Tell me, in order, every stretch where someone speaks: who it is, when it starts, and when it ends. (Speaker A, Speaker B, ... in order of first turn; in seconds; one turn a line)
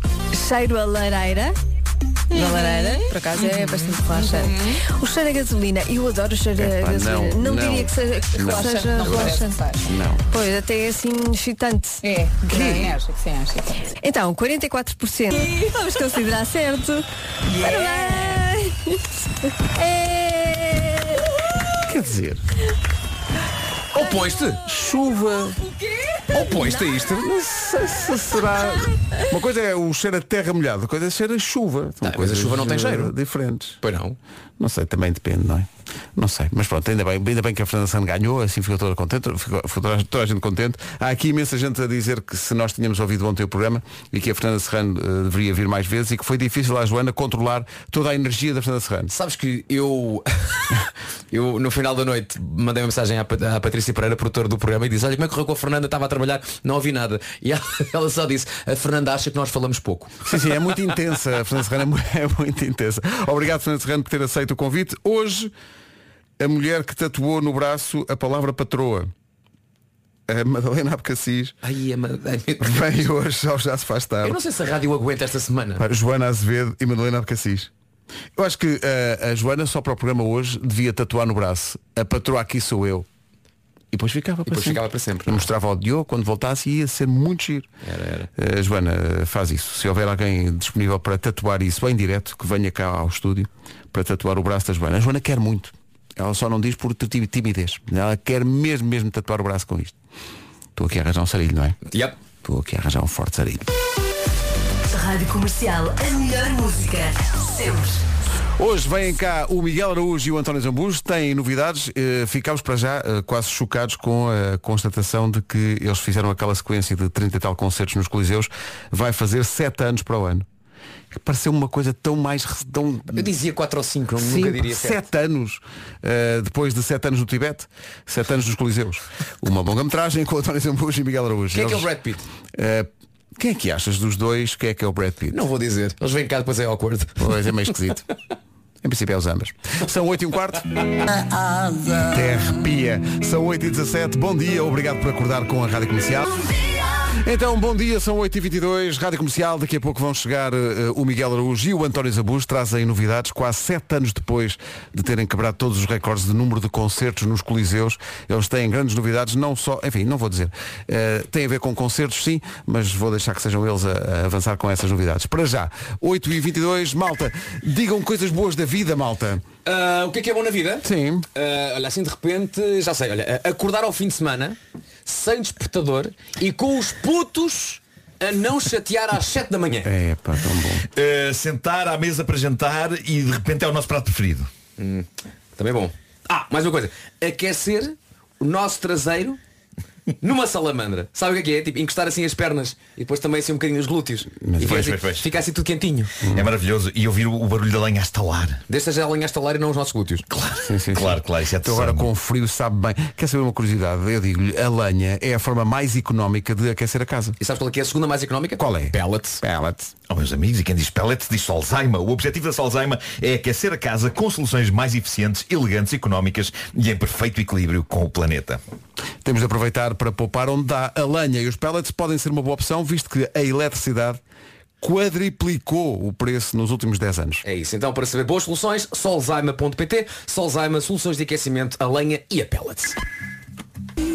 Speaker A: 0.3-1.5
Speaker A: 2.3-9.7
Speaker B: 4.4-4.8
Speaker C: 6.6-10.2
Speaker B: 8.4-9.8
Speaker A: 10.3-12.0
Speaker B: 12.0-13.7
Speaker C: 12.5-12.9
Speaker A: 14.0-18.9
Speaker B: 17.6-18.4
Speaker A: 19.8-21.2
Speaker C: 21.9-22.4
Speaker D: 23.9-24.6
Speaker C: 24.7-25.6
Speaker D: 26.3-27.2
Speaker C: 26.8-33.8
Speaker D: 32.0-33.1
Speaker D: 33.8-34.2
Speaker C: 34.6-49.1
Speaker D: 49.1-60.2
Speaker C: 60.2-65.5
Speaker C: 66.4-69.1
Speaker C: 70.3-71.5
Speaker D: 71.6-73.0
Speaker C: 72.6-74.4
Speaker D: 74.2-75.8
Speaker C: 75.8-77.7
Speaker C: 78.4-83.1
Speaker C: 83.9-87.7
Speaker D: 84.5-85.5
Speaker D: 87.8-88.3
Speaker C: 88.4-99.9
Speaker C: 100.8-101.8
Speaker D: 101.9-102.2
Speaker C: 102.4-103.7
Speaker E: 104.9-108.0
Speaker C: 108.6-120.5
Speaker C: 121.1-123.3
Speaker D: 123.1-125.0
Speaker C: 124.2-131.9
Speaker D: 131.5-132.3
Speaker C: 132.5-135.4
Speaker D: 135.3-137.3
Speaker C: 137.2-138.1
Speaker C: 138.8-140.9
Speaker E: 141.2-142.0
Speaker C: 142.1-146.4
Speaker C: 147.2-169.4
Speaker D: 169.7-179.9
Speaker C: 170.8-171.3
Speaker C: 179.8-180.9
Speaker F: 180.9-184.5
Speaker D: 184.8-189.4
Speaker D: 190.2-196.2
Speaker C: 194.4-194.8
Speaker F: 194.6-195.3
Speaker C: 196.2-196.5
Speaker F: 196.3-198.6
Speaker D: 198.7-200.2
Speaker F: 200.3-202.1
Speaker C: 200.6-207.4
Speaker D: 207.4-209.4
Speaker C: 208.6-209.9
Speaker F: 210.1-218.6
Speaker C: 219.2-224.2
Speaker C: 224.8-227.4
Speaker D: 227.4-233.0